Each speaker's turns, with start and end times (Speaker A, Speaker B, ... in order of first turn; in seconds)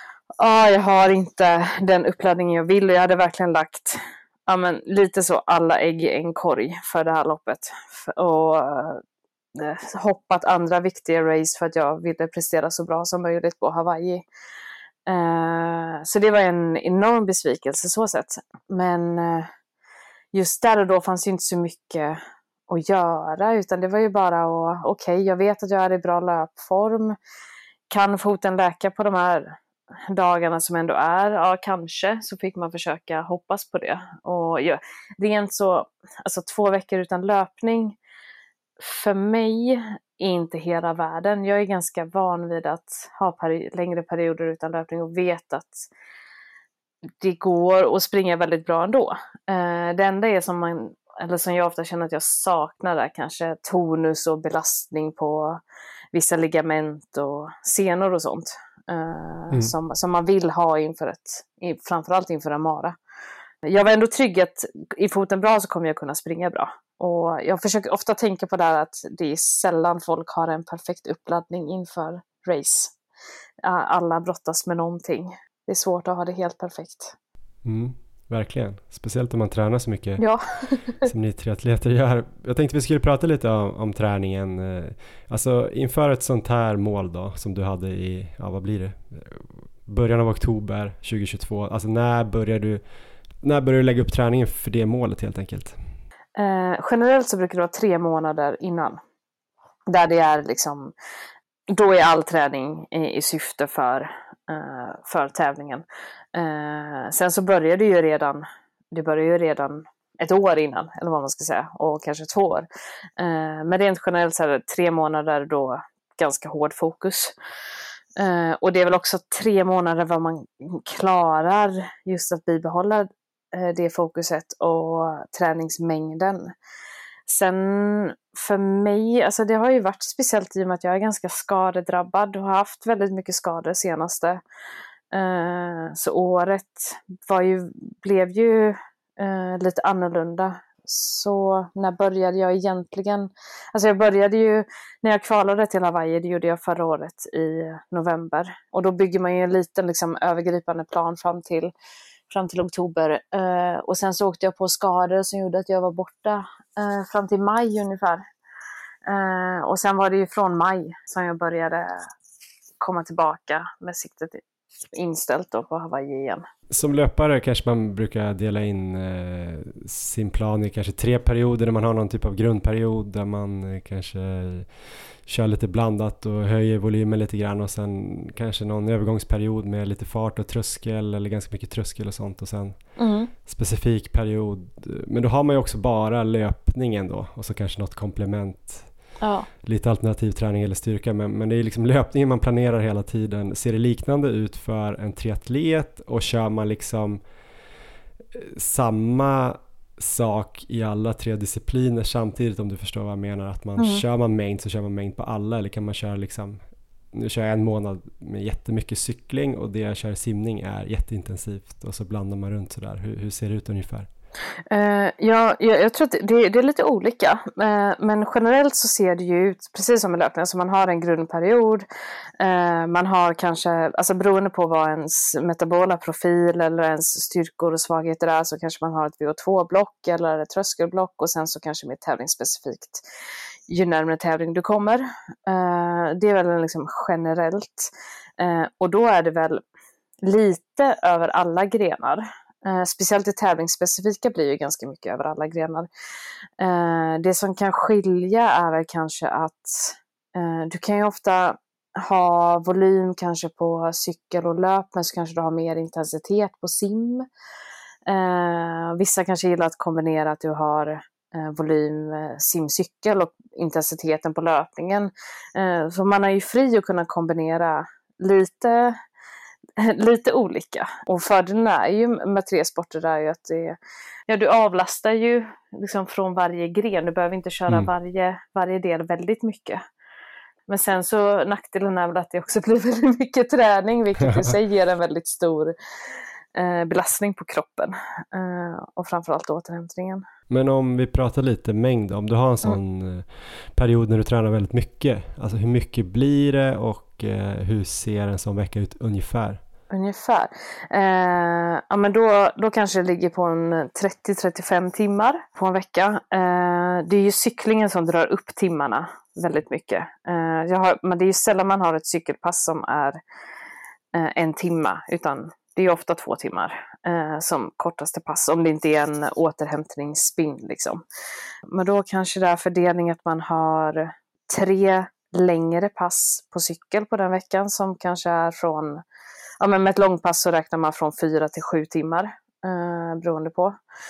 Speaker A: 0.4-9.0, 9.5-14.2, 15.1-19.5, 20.3-27.2, 27.9-29.6, 30.1-38.0, 38.8-45.9, 47.2-55.6, 56.1-63.0, 63.6-72.9, 73.6-77.1, 80.2-81.1, 96.3-99.0, 99.9-100.9, 101.7-117.3, 118.2-126.5, 127.3-134.4, 135.1-151.7, 152.3-158.2, 159.1-162.1, 162.8-164.4, 164.9-166.4, 183.0-183.3, 189.2-189.5, 214.7-221.9, 222.4-233.0, 233.7-239.6, 240.2-245.9, 246.6-257.3, 258.1-269.0, 269.8-273.8, 274.3-279.8, 280.7-285.7, 286.5-290.2, 299.9-313.2, 314.1-321.0, 321.7-329.0, 329.6-333.8
Speaker B: 77.6-80.2, 81.0-92.8, 93.4-95.8, 166.7-174.7, 175.2-182.8, 183.4-188.9, 189.6-197.2, 198.3-206.6, 207.1-214.1, 284.2-284.5, 290.5-299.6